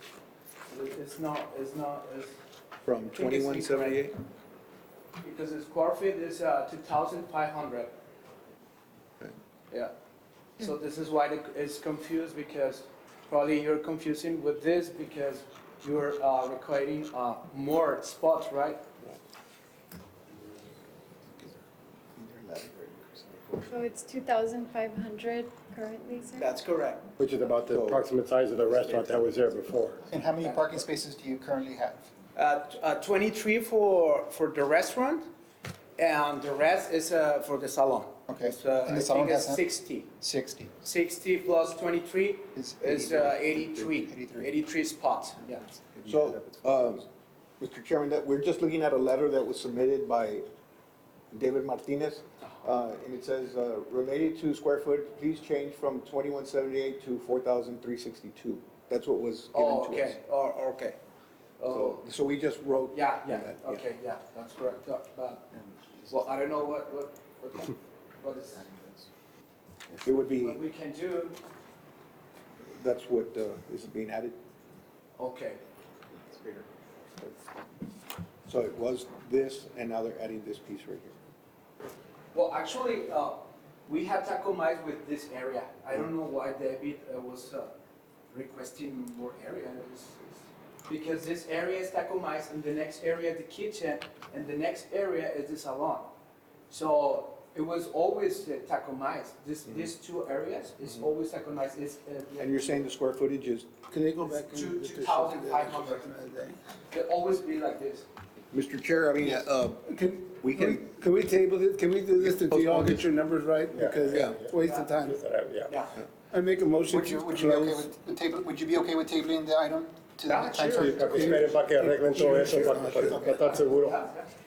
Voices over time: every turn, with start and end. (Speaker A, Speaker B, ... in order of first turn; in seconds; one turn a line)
Speaker A: 0.7-2.4
Speaker B: 2.9-4.1
Speaker A: 3.1-4.1
Speaker A: 5.2-8.0
Speaker A: 10.6-18.8
Speaker B: 22.2-23.0
Speaker C: 23.6-26.5
Speaker A: 26.4-27.1
Speaker D: 27.2-30.1
Speaker B: 27.7-28.0
Speaker B: 28.7-29.3
Speaker E: 30.1-32.1
Speaker A: 30.4-30.9
Speaker A: 32.4-35.3
Speaker A: 36.0-40.1
Speaker E: 38.3-39.7
Speaker E: 40.2-40.7
Speaker A: 40.8-45.6
Speaker E: 42.6-44.5
Speaker B: 46.0-47.0
Speaker B: 47.6-50.5
Speaker B: 51.3-60.2
Speaker A: 59.5-61.0
Speaker A: 61.6-62.0
Speaker B: 61.7-63.8
Speaker A: 62.9-65.5
Speaker A: 66.1-68.7
Speaker B: 70.0-70.6
Speaker A: 70.3-71.4
Speaker B: 72.7-74.4
Speaker A: 75.2-75.6
Speaker B: 78.5-81.2
Speaker A: 82.3-87.7
Speaker A: 88.3-96.1
Speaker A: 96.7-102.9
Speaker B: 102.4-103.7
Speaker F: 103.9-106.6
Speaker A: 104.2-106.3
Speaker A: 106.9-108.1
Speaker B: 108.5-109.8
Speaker F: 109.8-115.2
Speaker B: 110.4-110.9
Speaker B: 112.2-113.1
Speaker D: 113.7-115.7
Speaker B: 114.1-114.4
Speaker A: 114.6-115.0
Speaker A: 115.7-116.0
Speaker F: 116.3-118.0
Speaker E: 116.9-120.9
Speaker A: 120.3-121.6
Speaker F: 120.7-123.2
Speaker D: 120.8-124.1
Speaker E: 123.1-123.3
Speaker A: 123.3-124.3